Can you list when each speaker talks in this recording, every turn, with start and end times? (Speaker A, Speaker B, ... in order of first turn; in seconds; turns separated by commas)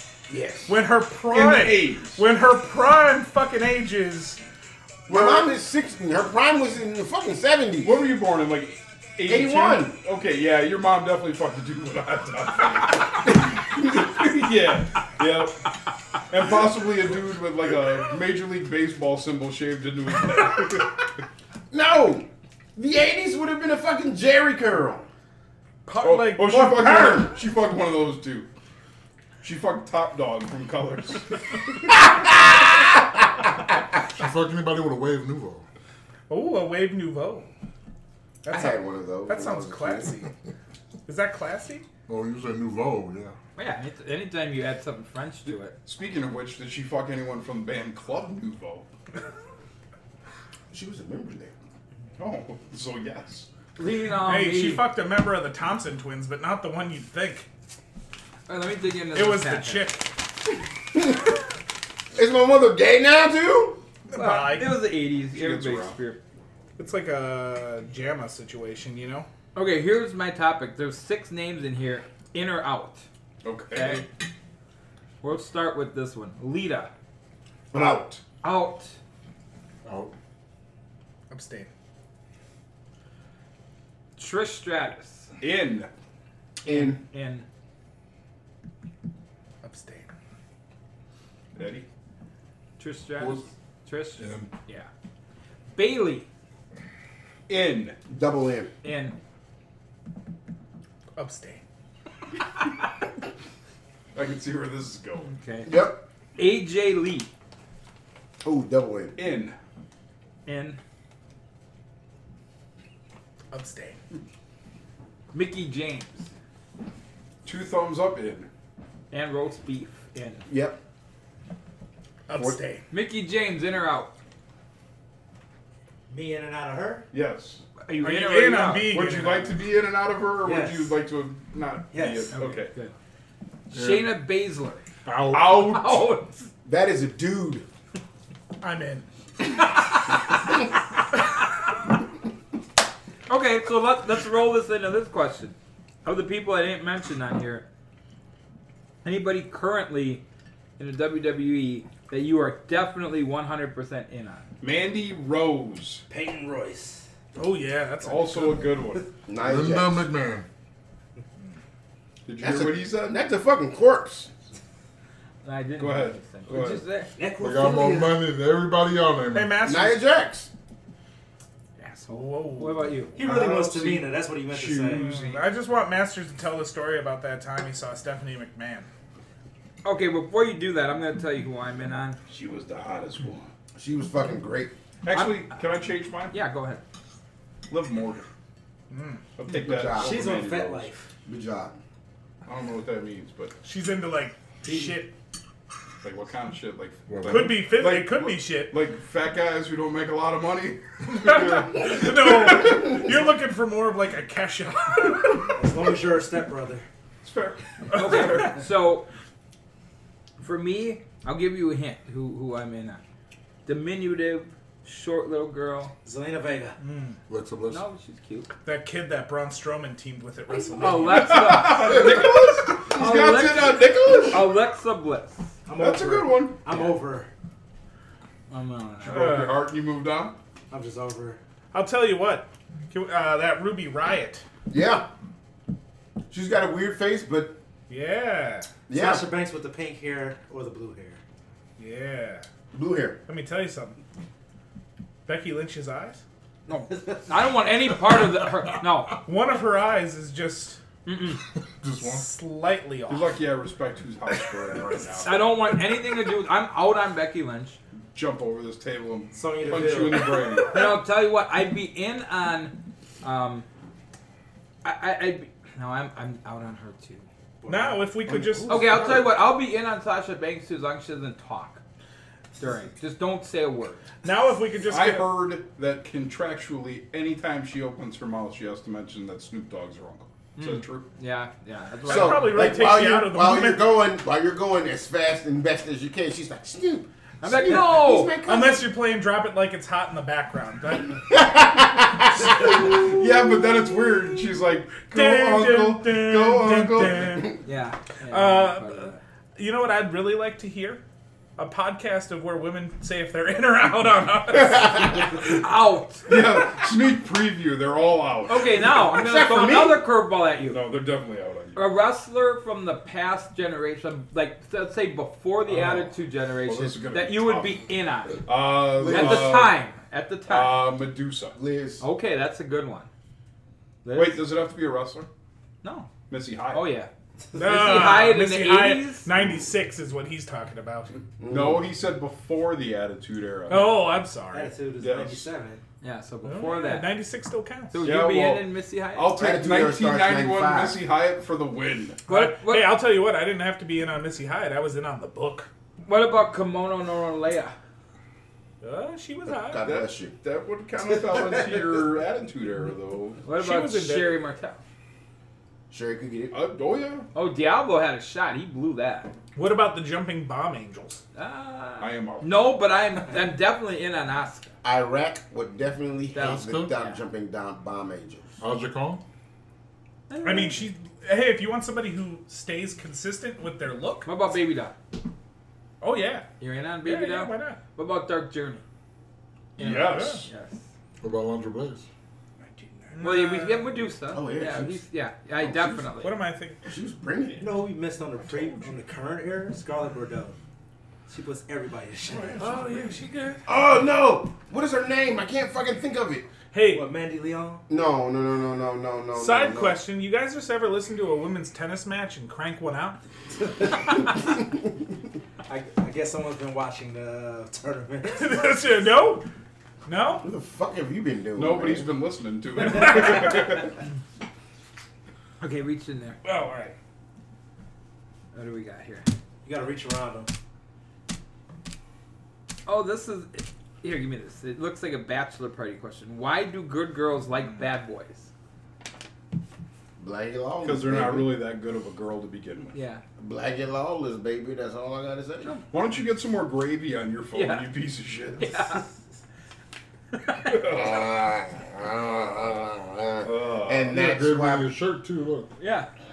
Speaker A: 0.3-0.8, Speaker B: 0.7-4.4, Speaker C: 1.3-2.2, Speaker A: 5.1-8.0, Speaker C: 7.8-15.6, Speaker A: 9.3-10.0, Speaker C: 16.3-20.9, Speaker A: 21.7-25.1, Speaker B: 25.9-26.7, Speaker C: 26.0-28.5, Speaker A: 26.4-27.3, Speaker C: 29.4-31.3, Speaker A: 31.9-32.8, Speaker D: 34.1-35.6, Speaker B: 36.3-37.5, Speaker B: 38.4-40.3, Speaker A: 38.5-40.1, Speaker B: 41.0-41.9, Speaker D: 42.1-43.3, Speaker E: 43.5-45.7, Speaker C: 45.5-48.9, Speaker A: 50.7-51.5, Speaker C: 52.2-53.5, Speaker E: 53.8-54.8, Speaker B: 54.1-57.5, Speaker E: 58.5-60.0, Speaker B: 59.1-60.1, Speaker A: 60.9-61.2, Speaker A: 62.1-63.8, Speaker B: 64.1-64.8, Speaker E: 64.1-66.2, Speaker C: 65.3-65.9, Speaker B: 66.8-69.3, Speaker E: 69.5-73.0, Speaker C: 73.4-74.0, Speaker E: 73.7-74.1, Speaker E: 75.2-76.9, Speaker A: 77.7-78.1, Speaker C: 77.7-78.2, Speaker E: 78.4-78.9, Speaker D: 79.8-80.1, Speaker B: 81.3-81.7, Speaker E: 84.2-85.3, Speaker C: 85.4-85.9, Speaker E: 86.6-87.4, Speaker B: 89.6-90.1, Speaker C: 91.5-91.8, Speaker E: 92.8-94.9, Speaker D: 93.2-93.4, Speaker D: 94.2-94.5, Speaker E: 95.7-96.3, Speaker C: 97.5-98.0, Speaker A: 98.1-98.7, Speaker E: 98.8-99.2, Speaker B: 101.2-101.6, Speaker C: 104.1-105.3, Speaker E: 105.3-107.3, Speaker A: 105.6-106.0, Speaker A: 108.4-109.2, Speaker C: 109.2-109.5, Speaker E: 110.5-110.8, Speaker B: 113.5-114.0, Speaker E: 115.3-116.3, Speaker C: 117.4-118.5, Speaker E: 119.1-120.4, Speaker A: 120.5-120.8, Speaker B: 122.3-122.8, Speaker E: 122.9-124.1, Speaker F: 126.1-127.0, Speaker C: 127.1-127.6, Speaker E: 127.8-129.0, Speaker B: 128.0-129.6, Speaker C: 128.8-132.7, Speaker F: 130.4-130.9, Speaker F: 131.9-132.3, Speaker E: 132.3-132.9, Speaker E: 133.7-134.8, Speaker D: 133.7-134.1, Speaker D: 135.1-135.6, Speaker C: 135.3-136.0, Speaker E: 135.5-136.5, Speaker A: 136.6-137.7, Speaker B: 138.6-139.1, Speaker E: 139.6-140.6, Speaker E: 143.3-147.6, Speaker E: 149.0-150.2, Speaker E: 150.8-154.4, Speaker C: 154.6-156.0, Speaker F: 156.1-157.0, Speaker B: 157.3-158.8, Speaker C: 158.0-159.1, Speaker A: 159.2-160.1, Speaker D: 159.4-160.4, Speaker C: 162.3-163.2, Speaker A: 162.4-164.3, Speaker E: 165.4-167.1, Speaker C: 165.8-166.8, Speaker F: 167.2-168.3, Speaker D: 167.4-169.7, Speaker B: 169.3-170.0, Speaker A: 169.6-170.5, Speaker E: 171.8-173.2, Speaker B: 172.1-173.0, Speaker F: 173.1-175.1, Speaker C: 173.2-175.4, Speaker B: 174.9-178.9, Speaker E: 179.8-182.2, Speaker C: 182.3-183.5, Speaker A: 183.8-184.7, Speaker C: 185.0-186.3, Speaker E: 185.1-185.5, Speaker E: 186.3-186.8, Speaker C: 187.7-188.3, Speaker B: 188.9-189.2, Speaker C: 189.3-190.9, Speaker A: 189.5-190.3, Speaker F: 189.9-191.1, Speaker A: 191.2-191.8, Speaker C: 192.4-193.5, Speaker B: 193.6-195.1, Speaker C: 196.0-203.0, Speaker D: 197.1-197.7, Speaker B: 197.3-198.8, Speaker B: 201.1-205.5, Speaker F: 205.5-206.8, Speaker C: 207.2-208.6, Speaker B: 207.9-208.6, Speaker E: 207.9-209.0, Speaker E: 210.4-213.0, Speaker E: 213.7-215.9, Speaker F: 216.0-216.8, Speaker B: 216.8-217.2, Speaker D: 217.3-217.8, Speaker E: 217.7-218.5, Speaker B: 218.6-221.7, Speaker E: 220.8-225.6, Speaker C: 220.9-224.5, Speaker F: 225.7-227.3, Speaker C: 225.8-226.6, Speaker E: 228.5-229.3, Speaker C: 229.0-230.3, Speaker B: 229.0-229.6, Speaker F: 230.7-231.4, Speaker B: 231.7-234.4, Speaker A: 234.7-235.1, Speaker A: 236.3-237.6, Speaker B: 237.9-238.7, Speaker A: 238.9-239.3, Speaker F: 238.9-241.2, Speaker B: 241.8-242.4, Speaker A: 242.7-243.2, Speaker B: 243.3-244.0, Speaker B: 245.2-246.2, Speaker E: 246.7-249.2, Speaker B: 249.2-250.8, Speaker E: 251.0-251.4, Speaker D: 251.6-252.2, Speaker B: 252.0-253.4, Speaker C: 253.1-255.5, Speaker E: 255.2-257.8, Speaker C: 258.1-260.9, Speaker F: 259.3-260.4, Speaker E: 260.6-263.6, Speaker E: 264.8-267.3, Speaker F: 267.6-269.2, Speaker B: 267.7-268.9, Speaker E: 268.7-271.8, Speaker E: 272.6-274.1, Speaker B: 274.2-275.3, Speaker C: 274.9-281.0, Speaker E: 280.6-282.8, Speaker B: 282.0-283.8, Speaker A: 282.1-288.9, Speaker E: 287.4-288.3, Speaker B: 288.3-291.4, Speaker A: 291.3-292.9, Speaker C: 292.6-297.4, Speaker B: 295.1-297.6, Speaker E: 297.6-299.2, Speaker B: 298.2-301.0, Speaker B: 301.6-305.2, Speaker E: 304.7-306.6, Speaker C: 306.3-308.8, Speaker E: 308.5-310.8, Speaker A: 308.8-310.0, Speaker C: 310.7-311.8, Speaker E: 311.8-320.9, Speaker C: 315.7-316.1, Speaker C: 316.6-317.8, Speaker C: 318.4-319.8, Speaker A: 319.0-319.7, Speaker C: 320.5-321.6, Speaker A: 321.5-322.0, Speaker E: 322.0-323.1, Speaker E: 324.0-324.4, Speaker C: 324.1-325.3, Speaker E: 325.8-326.1, Speaker C: 326.3-326.8, Speaker E: 326.7-329.2, Speaker B: 327.5-331.1, Speaker C: 331.1-334.1, Speaker A: 331.4-331.9, Speaker B: 333.7-334.7, Speaker F: 334.5-335.8, Speaker C: 335.0-335.5, Speaker E: 336.0-337.1, Speaker B: 336.4-338.0, Speaker E: 337.9-339.4, Speaker C: 338.0-342.2, Speaker A: 339.4-341.0, Speaker E: 342.3-342.9, Speaker B: 342.3-345.7, Speaker E: 346.0-347.7, Speaker B: 348.8-349.9, Speaker A: 349.4-350.3, Speaker C: 349.8-353.4, Speaker E: 353.4-354.8, Speaker B: 353.5-354.4, Speaker A: 355.9-356.5, Speaker C: 356.5-357.3, Speaker E: 357.3-359.3, Speaker B: 359.5-361.2, Speaker E: 361.3-364.7, Speaker C: 362.0-362.5, Speaker A: 364.8-368.6, Speaker E: 366.3-367.2, Speaker D: 366.4-366.9, Speaker D: 368.6-369.2, Speaker E: 370.3-370.9, Speaker B: 370.4-374.3, Speaker E: 374.2-374.9, Speaker B: 376.0-376.5, Speaker E: 376.6-378.8, Speaker B: 377.0-377.8, Speaker C: 379.8-380.5, Speaker B: 379.8-380.5, Speaker E: 379.8-380.8, Speaker D: 381.2-382.0, Speaker C: 382.6-383.2, Speaker B: 383.1-384.0, Speaker E: 383.2-386.4, Speaker A: 384.3-385.0, Speaker A: 385.6-386.1, Speaker B: 386.2-386.8, Speaker A: 386.8-387.7, Speaker F: 387.6-390.6, Speaker B: 388.4-388.9, Speaker F: 391.3-392.8, Speaker B: 392.3-393.6, Speaker A: 393.6-396.5, Speaker B: 396.7-397.1, Speaker F: 396.9-397.8, Speaker A: 397.9-400.0, Speaker B: 399.3-403.2, Speaker F: 403.8-404.3, Speaker F: 405.7-408.8, Speaker B: 408.2-409.5, Speaker B: 410.0-410.5, Speaker A: 410.4-412.1, Speaker C: 411.6-413.9, Speaker E: 415.6-416.4, Speaker B: 416.4-416.9, Speaker E: 418.5-419.3, Speaker F: 419.6-420.5, Speaker E: 422.9-428.5, Speaker A: 430.2-431.6, Speaker C: 430.8-432.9, Speaker E: 432.9-433.2, Speaker A: 433.4-435.8, Speaker C: 435.9-438.7, Speaker E: 437.5-437.9, Speaker E: 438.6-439.0, Speaker E: 440.5-440.8, Speaker C: 440.6-441.2, Speaker A: 440.8-444.9, Speaker C: 443.4-444.3, Speaker D: 444.1-445.7, Speaker E: 445.8-446.1